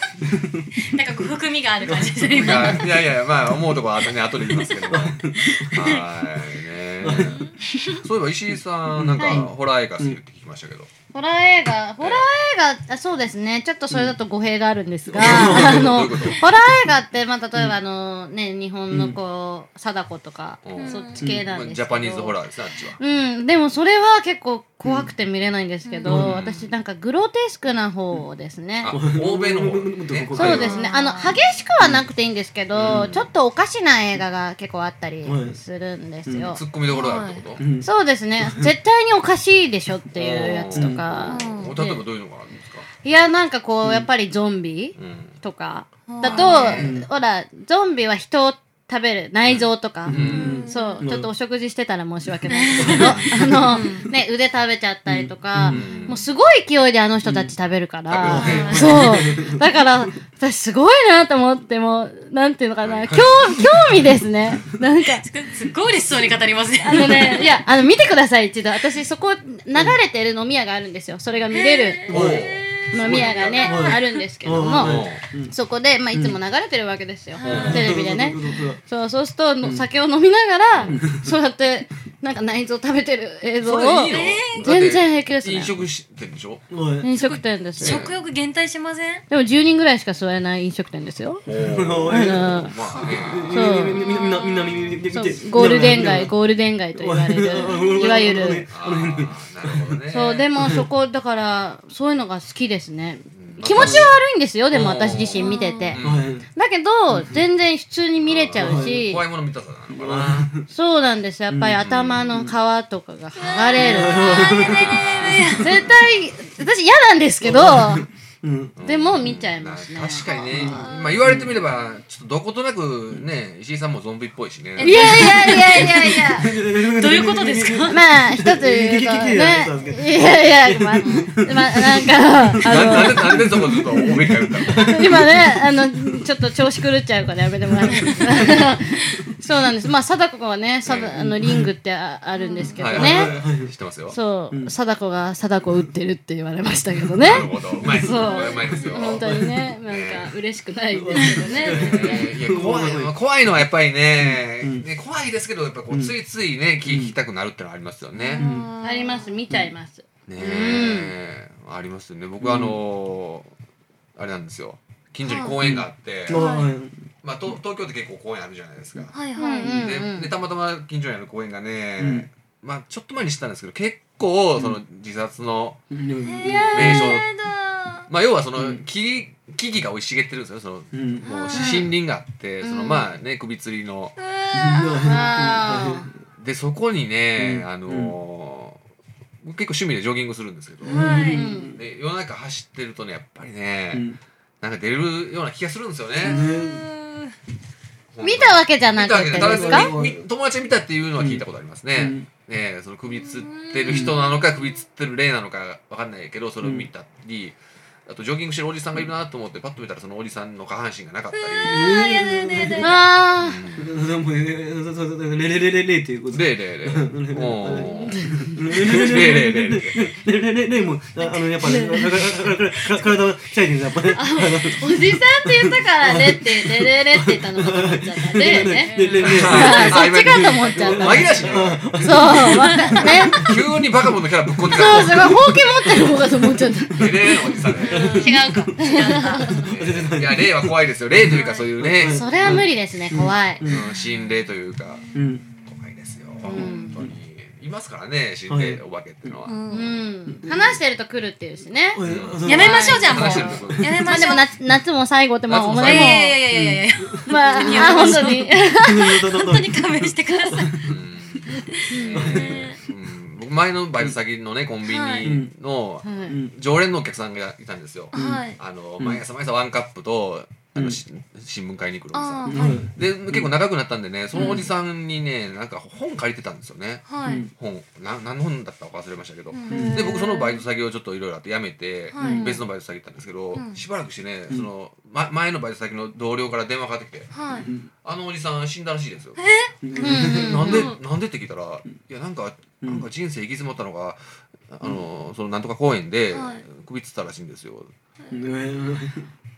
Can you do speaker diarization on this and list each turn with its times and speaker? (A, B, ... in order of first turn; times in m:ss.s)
0:00.2-0:00.7 A
0:00.8-0:02.9 B
0:01.8-0:02.9 A
0:02.3-0:10.9 C
0:04.5-0:04.9 B
0:04.9-0:05.9 A
0:05.4-0:06.0 B
0:07.0-0:07.4 A
0:07.2-0:07.6 B
0:08.9-0:10.2 A
0:09.2-0:09.5 D
0:11.1-0:22.4 D
0:12.0-0:12.2 C
0:15.1-0:16.1 A
0:15.1-0:16.4 C
0:18.9-0:19.2 A
0:20.6-0:23.0 C
0:20.8-0:21.2 B
0:21.2-0:21.5 A
0:23.0-0:28.9 D
0:25.8-0:26.2 B
0:26.0-0:26.4 A
0:26.1-0:26.7 C
0:28.8-0:30.8 C
0:28.9-0:30.8 A
0:30.4-0:36.6 D
0:30.4-0:31.4 B
0:31.8-0:32.0 A
0:32.7-0:33.3 C
0:32.8-0:33.1 A
0:35.2-0:35.6 A
0:36.3-0:36.6 A
0:36.5-0:37.6 C
0:36.9-0:37.4 B
0:37.6-0:37.9 A
0:37.8-0:42.0 D
0:38.4-0:38.7 A
0:40.2-0:42.9 C
0:40.8-0:41.0 A
0:41.3-0:41.8 B
0:43.0-1:05.2 D
0:43.8-0:44.1 A
0:45.0-0:45.3 C
0:46.1-0:46.8 B
0:46.2-0:46.9 C
0:46.8-0:47.1 A
0:49.4-0:50.6 C
0:50.1-0:51.3 A
0:50.2-0:51.0 B
0:52.5-0:54.1 B
0:52.8-0:53.2 A
0:52.9-0:53.4 C
0:55.1-0:55.9 A
0:55.7-0:56.2 C
0:57.2-0:57.5 A
0:58.1-0:59.0 C
0:58.2-0:59.8 A
0:58.4-0:59.3 B
1:02.8-1:03.4 C
1:05.1-1:07.5 B
1:06.8-1:12.2 D
1:11.5-1:14.2 B
1:12.1-1:12.5 A
1:12.1-1:13.7 C
1:12.9-1:25.7 D
1:13.1-1:15.6 A
1:14.7-1:15.2 C
1:16.1-1:16.4 A
1:17.3-1:17.9 B
1:17.4-1:17.9 C
1:17.5-1:18.8 A
1:20.7-1:21.0 C
1:20.9-1:21.3 A
1:23.6-1:26.6 C
1:24.1-1:24.7 B
1:26.7-1:27.1 A
1:27.0-1:28.0 D
1:27.2-1:29.2 B
1:27.8-1:28.2 C
1:29.3-1:31.4 D
1:31.4-1:33.6 C
1:31.6-1:36.3 A
1:32.1-1:32.8 D
1:32.9-1:35.0 B
1:33.5-1:34.0 D
1:35.1-1:38.7 D
1:37.0-1:40.0 A
1:37.5-1:38.4 B
1:38.7-1:40.5 C
1:40.1-1:46.0 D
1:40.6-1:40.9 A
1:43.3-1:44.1 C
1:43.8-1:44.1 A
1:44.7-1:46.4 C
1:45.4-1:46.0 B
1:46.0-1:46.5 A
1:46.6-1:49.2 D
1:47.1-1:47.4 A
1:48.2-1:50.5 C
1:48.6-1:49.0 A
1:49.9-1:50.7 A
1:50.7-1:54.7 D
1:51.5-1:52.5 A
1:51.8-1:52.3 C
1:53.4-1:55.9 B
1:53.8-1:55.6 A
1:54.5-1:56.3 C
1:55.6-1:58.1 D
1:57.4-1:58.8 A
1:58.8-2:05.3 C
1:58.8-2:00.4 D
2:00.2-2:01.3 B
2:00.5-2:01.6 A
2:04.8-2:08.1 B
2:04.8-2:06.5 D
2:05.4-2:15.7 A
2:07.9-2:13.8 D
2:11.0-2:11.3 B
2:12.6-2:15.2 C
2:14.7-2:23.3 D
2:17.8-2:19.2 B
2:17.8-2:18.7 A
2:20.8-2:21.2 C
2:21.1-2:21.7 A
2:22.4-2:23.0 B
2:22.8-2:24.2 C
2:22.8-2:23.7 A
2:24.1-2:32.3 D
2:27.0-2:28.1 A
2:27.2-2:29.3 C
2:28.0-2:28.9 B
2:29.0-2:29.6 A
2:29.8-2:30.3 C
2:30.9-2:33.1 A
2:31.4-2:31.8 B
2:31.6-2:38.4 C
2:34.2-2:34.9 A
2:36.8-2:37.2 A
2:38.2-2:39.4 B
2:38.4-2:38.7 A
2:38.8-2:41.1 D
2:40.3-2:43.5 C
2:42.4-2:42.8 A
2:44.2-2:46.4 C
2:45.2-2:45.6 B
2:45.6-2:47.1 A
2:46.3-2:46.7 B
2:47.2-2:49.2 C
2:49.1-2:49.8 B
2:49.4-2:50.3 D
2:49.7-2:55.8 C
2:52.0-2:52.3 A
2:55.9-2:57.2 A
2:56.2-2:58.1 B
2:56.4-2:57.0 D
2:56.7-2:57.3 C
2:58.1-3:04.2 C
2:58.6-2:58.8 A
3:00.9-3:01.3 A
3:01.2-3:01.9 B
3:01.5-3:01.9 D
3:02.6-3:03.0 D
3:04.2-3:05.3 B
3:04.5-3:06.2 A
3:05.0-3:06.1 D
3:06.4-3:08.8 C
3:07.4-3:08.2 A
3:09.4-3:14.1 C
3:10.8-3:11.8 A
3:10.9-3:11.5 B
3:11.2-3:11.8 D
3:13.9-3:14.2 A
3:14.6-3:16.4 C
3:16.2-3:16.9 A
3:16.2-3:17.3 B
3:18.1-3:31.9 C
3:18.2-3:19.9 D
3:19.3-3:20.2 A
3:21.2-3:21.4 A
3:22.0-3:22.3 A
3:23.2-3:24.7 B
3:23.9-3:24.2 A
3:26.6-3:26.9 A
3:31.3-3:33.1 B
3:31.6-3:33.0 A
3:32.8-3:33.6 D
3:33.4-3:33.9 C
3:33.8-3:53.6 A
3:36.3-3:40.2 C
3:37.8-3:39.1 D
3:41.3-3:42.5 D
3:44.0-3:53.5 D
3:48.4-3:49.8 B
3:49.2-3:52.2 C
3:52.4-3:53.4 B
3:53.0-3:55.3 C
3:54.5-4:03.9 A
3:54.7-3:57.6 D
3:57.0-3:58.3 C
3:57.7-3:59.7 B
3:58.1-3:59.7 D
3:59.6-4:02.6 C
4:01.3-4:01.7 B
4:02.0-4:03.7 D
4:03.6-4:05.1 C
4:05.1-4:05.4 A
4:05.7-4:09.6 C
4:06.5-4:06.9 B
4:06.5-4:07.0 D
4:08.5-4:09.3 A
4:09.5-4:10.0 B
4:09.7-4:13.4 D
4:10.3-4:10.8 A
4:11.9-4:14.1 A
4:12.0-4:12.5 C
4:12.4-4:14.5 B
4:13.1-4:14.0 C
4:14.0-4:16.4 D
4:15.5-4:16.3 C
4:15.8-4:22.8 B
4:16.5-4:21.0 A
4:17.3-4:19.2 D
4:20.9-4:47.3 C
4:21.9-4:22.3 D
4:22.2-4:22.7 A
4:24.8-4:25.3 B
4:25.2-4:25.5 A
4:26.0-4:26.4 D
4:26.3-4:26.5 A
4:28.1-4:28.6 B
4:28.1-4:28.5 A
4:32.1-4:32.9 B
4:32.5-4:33.5 A
4:34.3-4:34.7 B
4:37.1-4:37.5 B
4:37.2-4:37.5 A
4:39.5-4:40.6 B
4:39.7-4:40.1 A
4:42.1-4:42.6 B
4:42.2-4:42.5 A
4:43.6-4:43.8 B
4:47.3-4:47.7 B
4:47.6-4:47.9 A
4:48.0-4:49.4 C
4:49.4-4:51.0 B
4:49.8-4:50.9 A
4:50.0-4:50.9 D
4:50.1-4:57.9 C
4:56.3-4:56.6 B
4:58.3-4:59.3 A